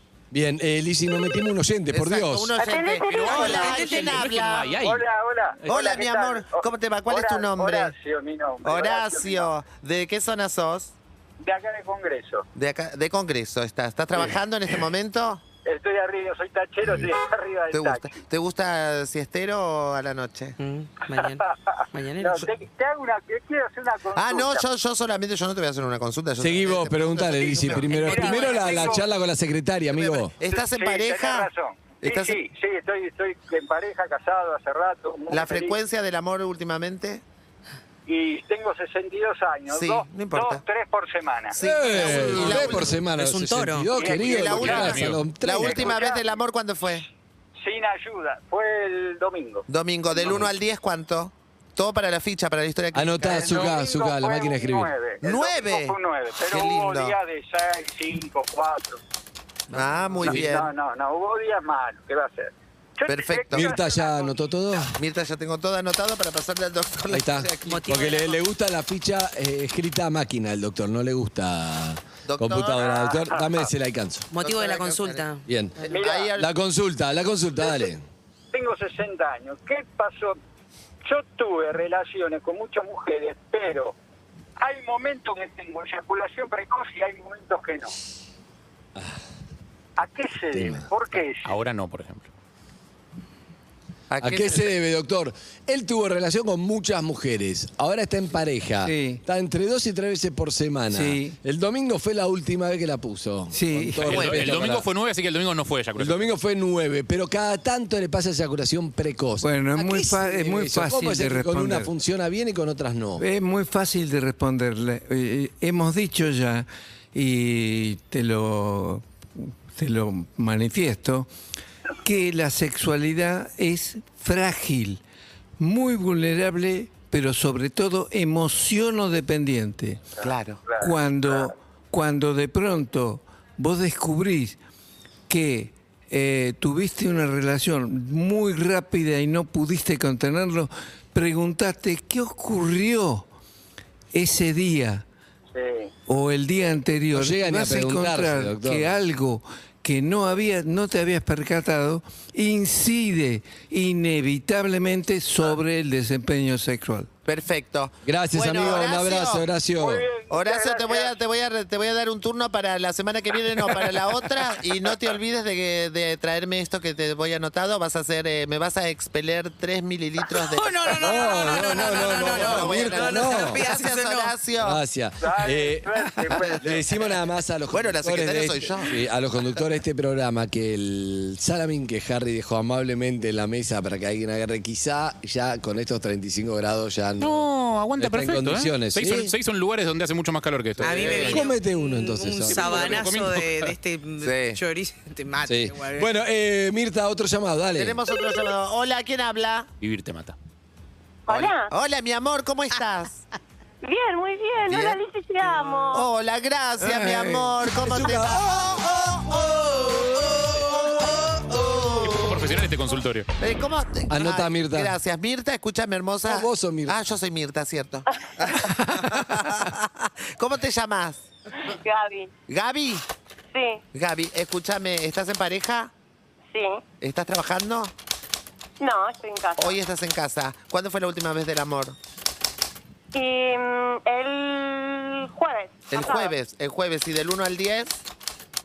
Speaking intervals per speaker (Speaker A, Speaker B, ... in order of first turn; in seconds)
Speaker A: 0.3-2.5, 26.4-30.3, 41.6-46.0, 52.9-54.9, 63.5-65.0, 67.1-74.3, 75.5-75.8, 76.4-78.0, 90.5-90.8, 94.2-104.9, 106.0-113.2, 147.1-148.9, 158.1-160.1, 171.0-173.6, 174.6-189.3, 190.8-193.1, 195.4-198.0, 207.7-208.6, 214.1-214.9, 216.2-217.0
Speaker B: 1.9-4.8, 5.7-7.9, 8.6-10.9, 12.6-15.4, 17.7-20.6, 24.1-28.9, 29.9-31.5, 32.0-32.4, 35.3-37.2, 39.7-40.6, 41.5-43.0, 44.0-47.1, 49.7-53.7, 55.2-57.1, 59.7-60.7, 63.1-63.8, 65.0-67.8, 72.3-73.0, 74.4-75.2, 75.8-76.5, 94.1-94.7, 130.2-130.6, 157.3-159.4, 160.3-174.8, 177.7-178.9, 190.8-191.5, 194.2-194.6, 197.8-199.7, 201.3-203.2, 204.7-205.0, 205.9-212.5, 213.4-221.3, 222.5-223.1, 223.9-225.9, 227.0-227.9, 229.6-232.0, 235.9-238.0
Speaker C: 2.6-3.9, 201.3-201.7, 203.8-206.1, 221.7-222.3, 223.5-223.8, 226.5-226.8, 228.8-229.8, 233.1-236.3
Speaker D: 2.7-3.6, 4.7-9.5, 11.4-12.5, 15.7-18.2, 21.1-24.7, 27.4-29.1, 30.4-35.8, 38.1-42.7, 43.9-44.9, 45.5-46.3, 47.6-49.6, 50.2-50.4, 53.2-59.0, 60.1-64.8, 72.8-73.6, 75.8-76.4, 78.5-80.4, 81.0-84.0, 84.6-87.9, 90.0-91.5, 130.2-131.5, 145.5-145.9, 159.8-161.2, 175.2-176.9
Speaker E: 3.1-5.1, 44.5-45.2, 91.5-92.3, 104.0-106.3, 187.2-191.4, 192.5-193.7, 199.8-200.4, 212.1-213.3
Speaker F: 3.3-4.4, 20.6-22.4, 27.9-28.7, 43.1-43.9, 67.7-68.4, 74.3-75.5, 170.2-174.3, 190.8-196.1
Speaker G: 98.8-99.2, 100.9-101.4, 103.5-104.4, 109.4-111.9, 113.2-121.3, 122.0-125.0, 125.6-130.1, 130.8-134.6, 135.3-143.3, 144.1-145.1, 146.1-157.1, 206.8-207.5